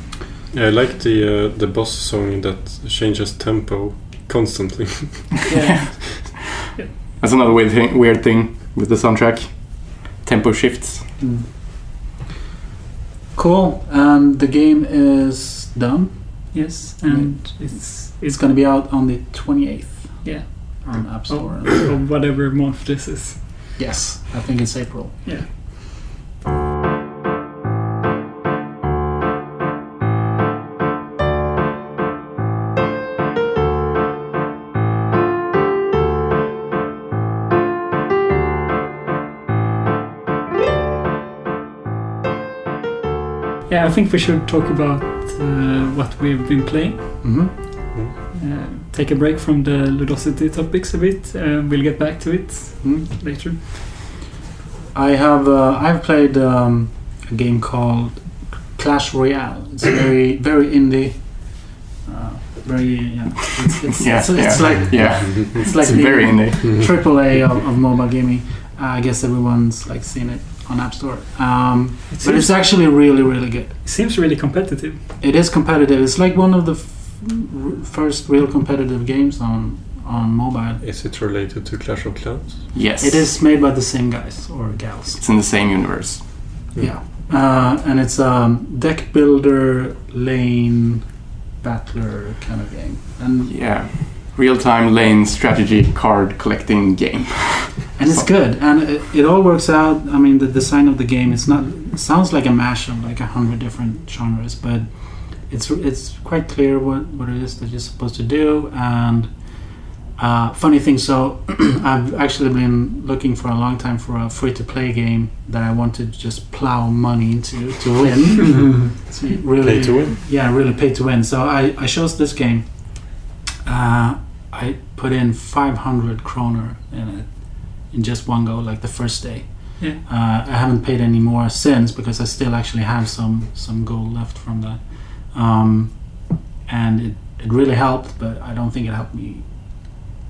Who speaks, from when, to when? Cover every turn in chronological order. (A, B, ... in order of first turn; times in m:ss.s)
0:00.5-0:05.3 A
0:05.5-0:06.9 B
0:05.5-0:11.2 C
0:11.2-0:12.0 D
0:13.3-0:21.8 D
0:16.5-0:18.1 B
0:20.2-0:23.5 B
0:23.8-0:25.5 D
0:43.7-0:47.8 B
0:47.2-0:47.8 D
0:48.4-0:53.6 B
0:54.9-1:13.8 D
1:04.0-1:06.6 C
1:04.6-1:05.7 A
1:12.1-1:13.3 B
1:13.8-1:15.0 B
1:15.2-1:20.8 D
1:20.8-1:22.7 A
1:22.7-1:23.3 C
1:22.9-1:25.2 D
1:25.2-1:26.6 C
1:26.8-1:33.8 D
1:33.5-1:38.3 C
1:38.0-2:20.0 D
1:59.0-1:59.4 B
1:59.6-2:00.2 A